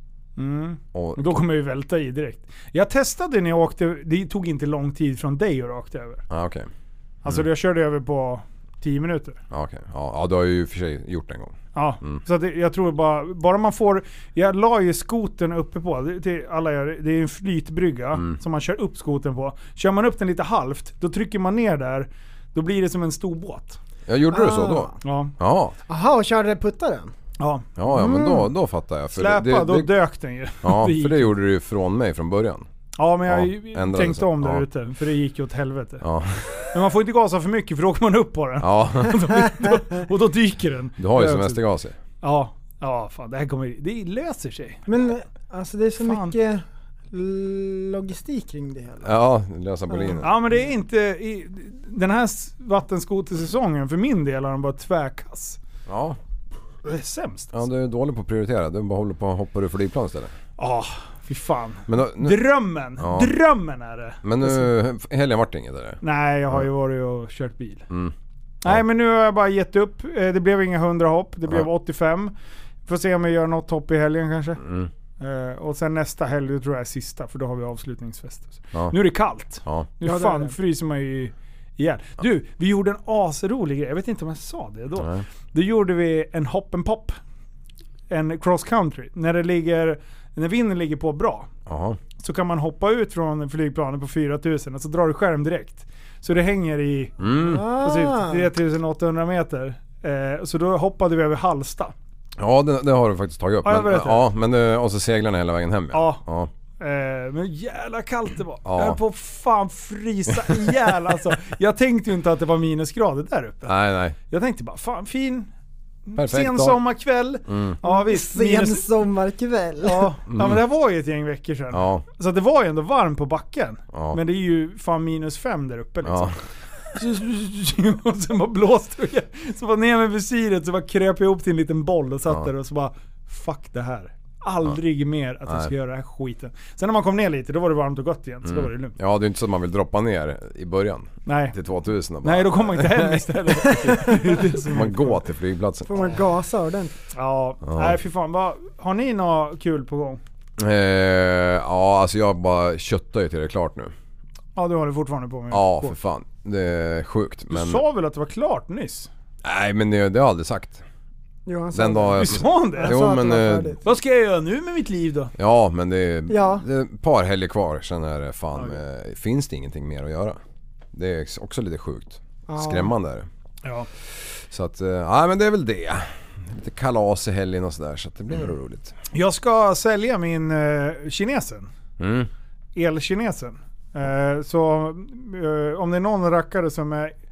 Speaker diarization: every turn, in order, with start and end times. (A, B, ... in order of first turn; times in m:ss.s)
0:00.4-0:06.2 A
0:00.9-0:01.3 B
0:06.3-0:06.7 B
0:07.2-0:09.4 A
0:09.5-0:12.2 B
0:11.7-0:23.8 A
0:24.1-0:25.8 B
0:24.3-0:25.0 C
0:25.0-0:25.3 A
0:25.9-0:27.1 C
0:27.4-0:27.7 A
0:27.8-0:30.0 B
0:27.9-0:28.5 C
0:29.1-0:31.3 A
0:30.6-0:32.6 B
0:33.0-0:36.0 A
0:33.3-0:34.6 B
0:36.0-0:36.7 B
0:36.7-0:41.6 A
0:38.6-0:39.5 B
0:41.0-0:42.0 B
0:42.2-0:44.8 A
0:44.9-0:49.1 C
0:46.0-0:46.3 A
0:49.0-0:50.3 B
0:49.9-0:50.2 C
0:50.2-0:55.6 A
0:55.9-0:56.2 B
0:56.8-0:57.6 A
0:57.5-1:00.3 B
1:00.6-1:04.7 A
1:01.9-1:03.3 B
1:04.2-1:06.0 B
1:06.0-1:07.8 A
1:08.6-1:12.3 A
1:12.8-1:14.6 A
1:14.6-1:14.9 B
1:15.2-1:27.1 A
1:19.6-1:19.9 B
1:20.0-1:20.5 C
1:25.0-1:25.2 B
1:28.1-1:31.5 A
1:31.6-1:32.0 B
1:32.2-1:41.9 A
1:37.2-1:37.6 B
1:37.4-1:38.5 C
1:42.4-1:46.5 B
1:43.6-1:44.2 A
1:45.9-1:46.2 A
1:46.8-1:53.7 A
1:48.6-1:49.0 B
1:50.4-1:50.7 B
1:53.6-1:54.2 B
1:54.3-1:55.5 A
1:56.1-1:58.9 A
1:56.2-1:56.8 B
1:57.5-1:57.8 B
1:57.8-2:00.1 C
1:59.8-2:06.4 A
2:00.3-2:00.6 B
2:01.7-2:02.0 B
2:03.9-2:04.2 B
2:06.0-2:06.4 B
2:06.9-2:19.0 A
2:15.5-2:15.7 B
2:18.4-2:26.2 B
2:21.2-2:21.6 A
2:22.2-2:25.2 A
2:25.8-2:26.9 C
2:27.1-2:30.2 A
2:27.6-2:28.0 B
2:30.6-2:33.9 B
2:34.6-2:36.0 A
2:35.5-2:37.8 B
2:37.5-2:39.1 A
2:39.4-2:40.8 B
2:41.4-2:43.8 C
2:41.7-2:43.8 B
2:42.2-2:43.1 A
2:43.8-2:45.3 A
2:45.4-2:50.4 B
2:46.3-2:46.6 C
2:50.9-2:53.3 B
2:52.5-2:52.9 C
2:54.5-2:58.9 B
2:59.1-3:01.7 A
3:02.0-3:02.3 B
3:02.8-3:07.1 A